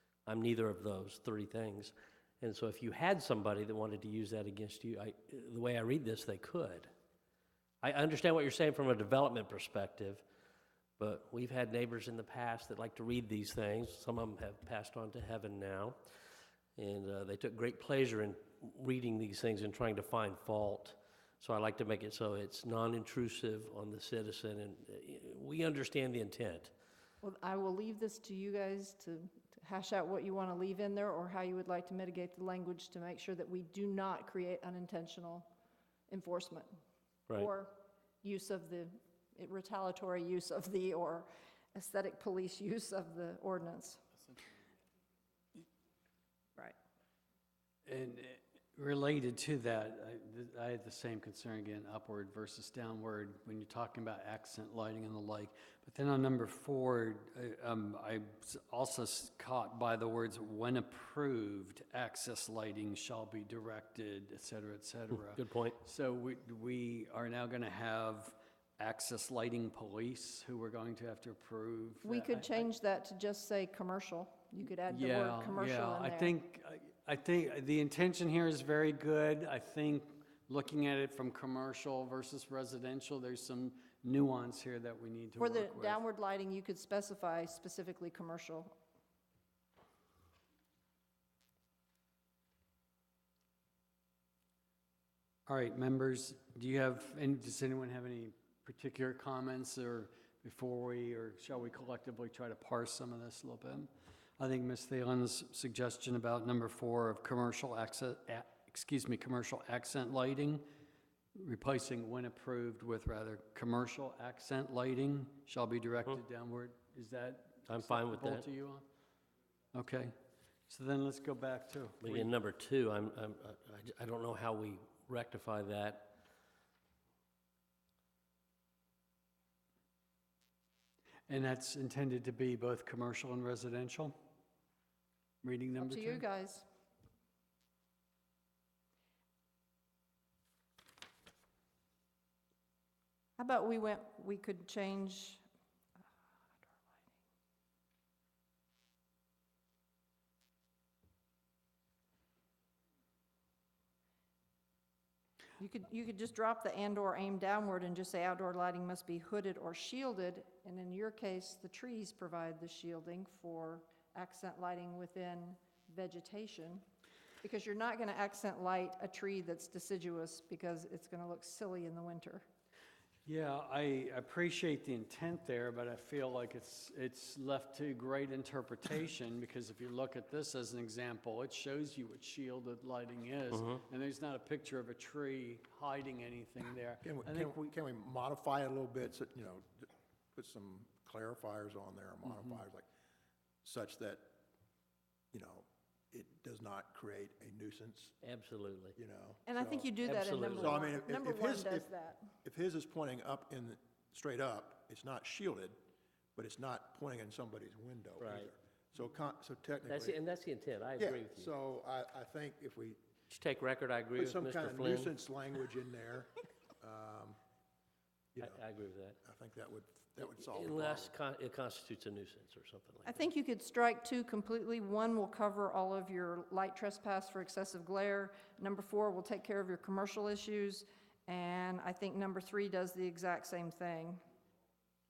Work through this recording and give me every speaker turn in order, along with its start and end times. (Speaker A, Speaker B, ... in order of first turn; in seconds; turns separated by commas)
Speaker A: 0.2-6.9, Speaker A: 7.8-10.2, Speaker A: 11.0-16.0, Speaker A: 16.8-26.7, Speaker B: 27.2-35.5, Speaker B: 36.1-36.7, Speaker B: 37.3-44.0, Speaker C: 47.8-72.7, Speaker A: 65.2-65.8, Speaker B: 72.0-76.3, Speaker C: 74.9-86.0, Speaker B: 85.4-88.7, Speaker C: 95.5-110.7, Speaker C: 111.3-118.8, Speaker A: 117.7-118.5, Speaker C: 119.7-120.1, Speaker C: 120.7-122.3, Speaker A: 122.0-126.2, Speaker C: 131.3-134.1, Speaker C: 135.4-136.2, Speaker B: 135.8-136.7, Speaker B: 143.4-145.4, Speaker B: 146.6-147.0, Speaker B: 155.6-166.8, Speaker B: 167.4-172.4, Speaker C: 173.2-187.6, Speaker A: 183.5-183.8, Speaker D: 187.0-192.9, Speaker D: 193.6-194.3, Speaker D: 195.3-198.2, Speaker A: 198.2-198.9, Speaker D: 198.9-205.8, Speaker B: 199.5-202.2, Speaker A: 200.0-200.8, Speaker D: 206.3-210.2, Speaker A: 208.2-208.5, Speaker A: 209.9-211.5, Speaker D: 211.0-213.0, Speaker A: 213.3-215.1, Speaker D: 214.2-217.4, Speaker D: 218.3-218.6, Speaker A: 218.4-219.2, Speaker D: 219.2-221.1, Speaker A: 220.2-223.2, Speaker B: 223.0-234.2